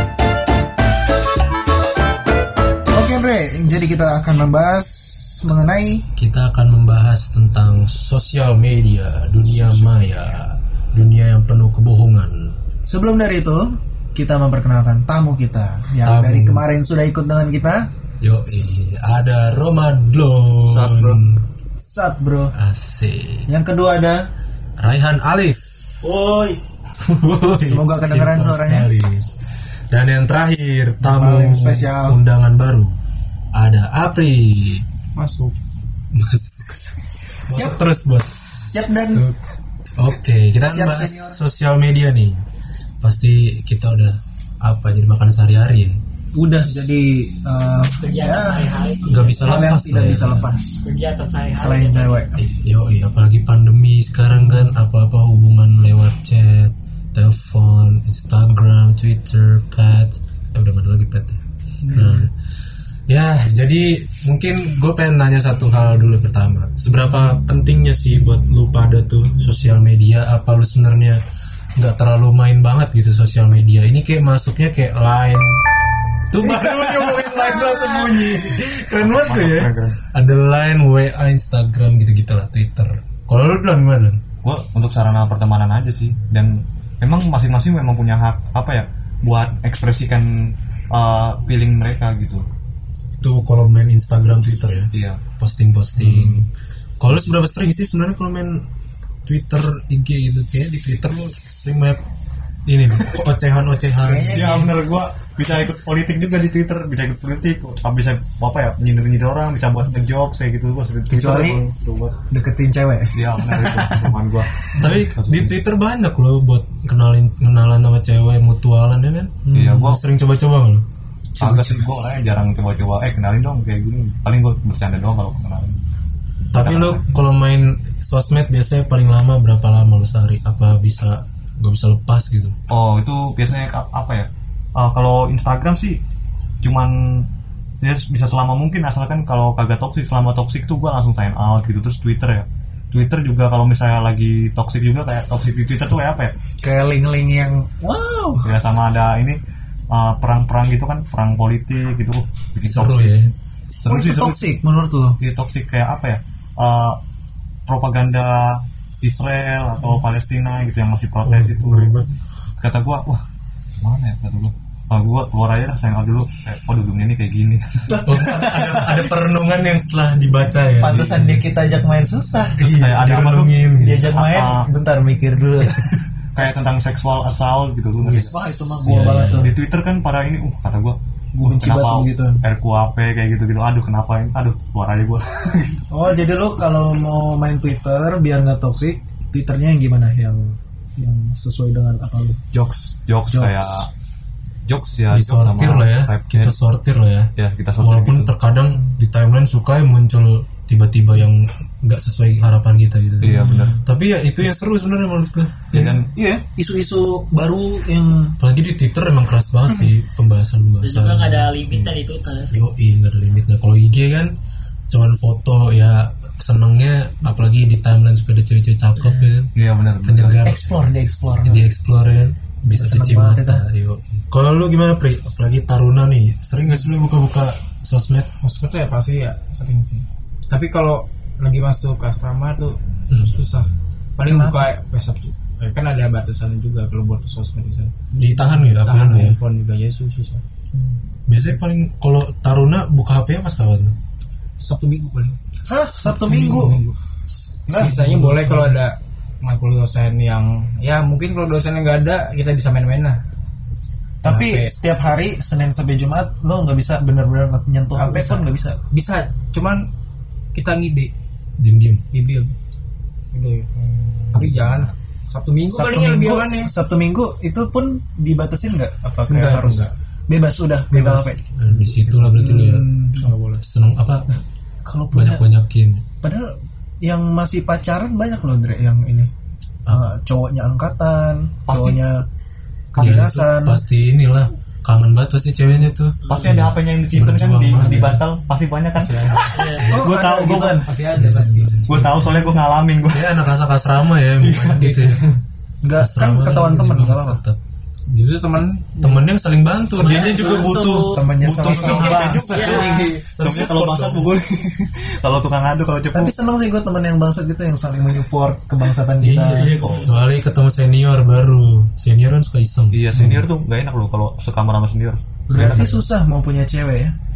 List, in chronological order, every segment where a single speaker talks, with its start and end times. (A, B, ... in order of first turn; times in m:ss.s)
0:02.9-0:06.0 A
0:06.2-0:12.6 B
0:12.8-0:17.9 A
0:16.0-0:16.6 B
0:18.2-0:21.4 B
0:20.6-0:21.2 C
0:21.8-0:22.5 A
0:22.5-0:23.5 B
0:23.5-0:24.3 A
0:24.8-0:25.6 B
0:26.0-0:26.6 D
0:27.0-0:29.3 B
0:27.6-0:28.9 A
0:29.9-0:32.9 B
0:31.0-0:32.2 A
0:33.5-0:34.8 B
0:35.2-0:35.6 E
0:36.1-0:36.9 B
0:37.5-0:38.8 B
0:37.5-0:37.8 A
0:38.6-0:39.2 A
0:40.0-0:42.4 B
0:40.6-0:41.4 A
0:43.0-0:46.0 B
0:46.3-0:48.8 A
0:48.0-0:49.5 D
0:49.1-0:50.5 B
0:49.4-0:50.8 A
0:50.8-0:52.2 D
0:51.5-0:52.4 A
0:52.4-1:01.4 B
1:01.8-1:02.3 A
1:01.9-1:02.3 B
1:03.1-1:11.2 B
1:11.8-1:15.6 B
1:16.3-1:24.2 B
1:16.4-1:18.7 A
1:18.9-1:20.0 C
1:24.4-1:32.5 C
1:33.2-1:36.5 B
1:34.9-1:35.2 C
1:36.0-1:36.4 C
1:37.0-1:38.7 B
1:39.2-1:42.0 B
1:42.7-1:44.7 B
1:44.0-1:44.8 A
1:44.3-1:52.2 C
1:51.1-1:51.6 A
1:52.3-1:54.2 A
1:53.1-1:55.6 C
1:54.7-2:00.8 B
1:59.5-1:59.8 A
1:59.5-2:00.0 C
2:01.4-2:01.9 A
2:01.4-2:05.8 C
2:06.5-2:12.6 B
2:06.5-2:07.0 C
2:12.7-2:16.0 C
2:16.6-2:17.3 C
2:17.8-2:26.3 C
2:26.6-2:28.6 A
2:28.4-2:29.4 C
2:29.9-2:33.2 C
2:32.6-2:33.3 B
2:33.8-2:34.5 C
2:33.8-2:35.2 A
2:35.2-2:37.0 C
2:37.7-2:42.0 C
2:41.2-2:42.1 B
2:42.6-2:43.2 C
2:43.8-2:47.9 C
2:47.9-2:49.1 A
2:48.0-2:51.4 B
2:50.8-2:52.7 A
2:50.9-2:51.1 C
2:52.6-2:54.1 B
2:52.6-2:54.6 C
2:53.8-2:55.9 A
2:56.4-2:58.4 C
2:58.0-2:59.5 B
2:58.3-2:59.5 A
2:59.3-3:05.8 C
3:01.3-3:02.4 A
3:05.9-3:12.4 A
3:12.5-3:13.9 C
3:13.3-3:13.8 A
3:14.6-3:16.6 C
3:15.1-3:25.7 B
3:17.4-3:18.3 C
3:23.2-3:23.8 C
3:23.4-3:23.8 A
3:25.7-3:26.1 C
3:25.7-3:28.4 A
3:28.4-3:31.9 B
3:30.8-3:32.5 D
3:32.5-3:34.3 B
3:34.9-3:39.5 B
3:39.5-3:40.5 C
3:40.0-3:40.6 B
3:40.4-3:41.7 A
3:41.4-3:48.3 B
3:42.7-3:43.6 A
3:48.4-4:00.4 E
3:54.2-3:54.7 A
3:58.1-3:59.4 B
4:01.3-4:03.9 B
4:04.6-4:05.4 E
4:05.6-4:06.8 A
4:06.0-4:07.0 E
4:07.6-4:08.7 B
4:07.7-4:07.9 A
4:07.7-4:13.2 E
4:14.2-4:18.8 A
4:14.2-4:14.7 E
4:17.9-4:19.9 E
4:20.5-4:21.1 E
4:21.6-4:22.0 B
4:22.1-4:22.5 E
4:23.3-4:26.7 E
4:24.4-4:24.7 B
4:25.7-4:31.4 A
4:29.3-4:29.9 E
4:30.9-4:32.9 B
4:31.7-4:32.5 E
4:32.3-4:33.3 A
4:33.2-4:33.6 E
4:33.6-4:34.3 B
4:34.8-4:35.4 A
4:35.1-4:36.0 B
4:36.2-4:39.3 A
4:39.9-4:42.3 A
4:41.7-4:42.0 C
4:42.9-4:43.8 A
4:43.0-4:48.2 B
4:46.2-4:46.6 D
4:46.3-4:50.8 C
4:49.0-4:49.6 E
4:49.5-4:49.9 D
4:49.6-4:50.1 B
4:49.9-4:50.9 A
4:50.8-4:52.0 E
4:51.1-4:52.1 B
4:51.8-4:53.4 C
4:53.1-4:55.2 B
4:54.4-4:55.0 C
4:55.8-4:57.4 A
4:56.0-4:57.6 B
4:58.1-4:59.2 E
4:59.0-5:04.3 B
5:00.0-5:01.2 D
5:01.1-5:03.2 A
5:01.7-5:06.3 C
5:01.8-5:03.0 D
5:02.6-5:03.2 E
5:06.1-5:09.8 A
5:09.2-5:13.4 B
5:09.5-5:10.0 E
5:09.8-5:10.1 C
5:12.9-5:15.2 C
5:15.5-5:17.1 A
5:15.5-5:16.0 B